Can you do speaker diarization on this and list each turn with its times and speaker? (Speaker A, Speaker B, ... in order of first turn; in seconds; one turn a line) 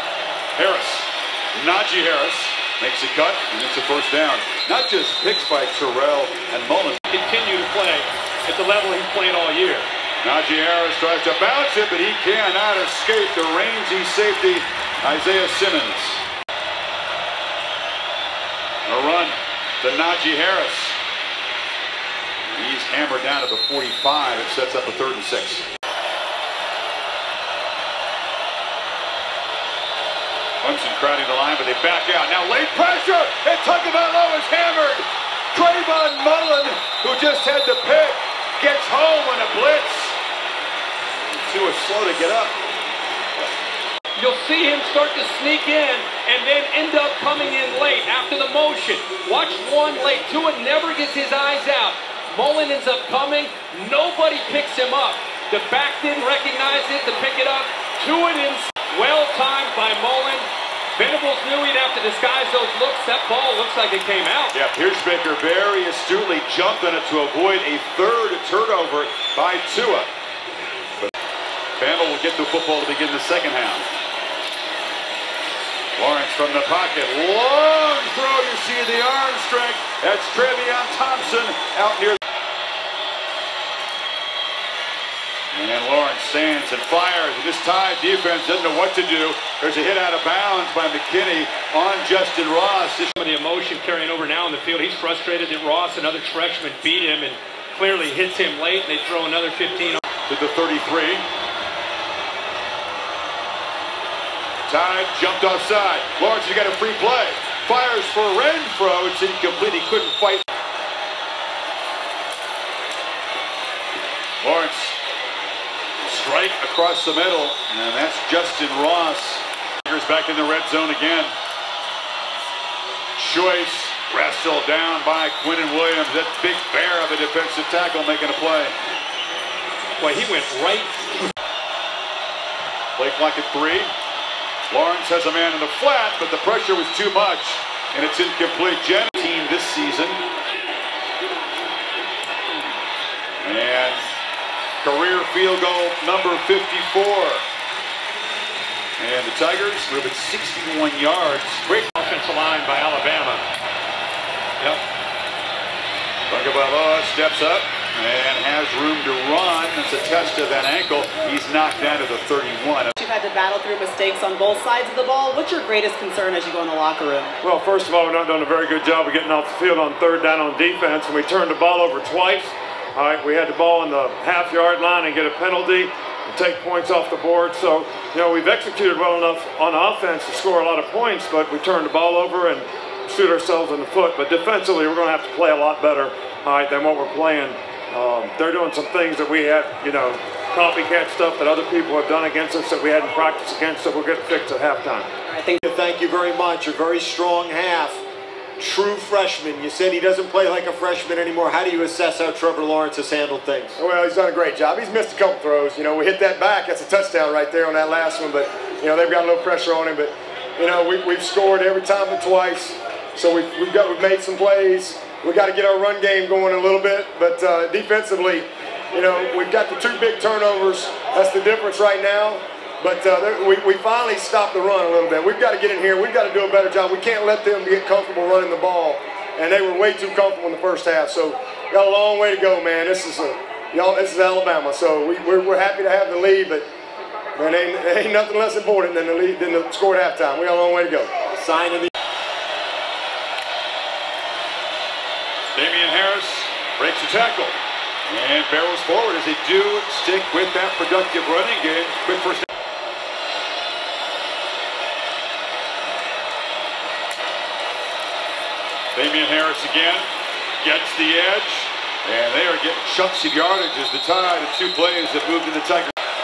Speaker A: 0.6-7.0
Speaker B: 7.1-9.9
Speaker A: 10.2-16.2
Speaker A: 18.9-21.0
Speaker A: 22.5-25.6
Speaker A: 30.6-40.2
Speaker A: 41.3-42.6
Speaker B: 44.1-64.5
Speaker A: 64.5-70.1
Speaker A: 71.8-73.9
Speaker A: 76.0-82.2
Speaker A: 85.5-93.1
Speaker B: 93.2-100.0
Speaker A: 100.3-101.2
Speaker A: 104.7-110.4
Speaker A: 114.4-115.0
Speaker A: 116.1-121.3
Speaker A: 123.2-128.8
Speaker B: 130.0-131.3
Speaker A: 133.0-133.9
Speaker A: 134.7-140.2
Speaker A: 143.4-144.1
Speaker A: 144.8-147.4
Speaker A: 149.0-151.7
Speaker B: 151.7-153.4
Speaker A: 156.3-162.9
Speaker C: 163.0-167.4
Speaker D: 167.4-195.1
Speaker C: 195.3-195.6
Speaker E: 195.6-198.0
Speaker E: 198.6-203.8
Speaker F: 203.8-236.7
Speaker F: 237.4-241.1
Speaker E: 241.3-241.9
Speaker A: 245.6-247.6
Speaker A: 248.1-252.5
Speaker A: 258.9-260.1
Speaker A: 260.6-265.9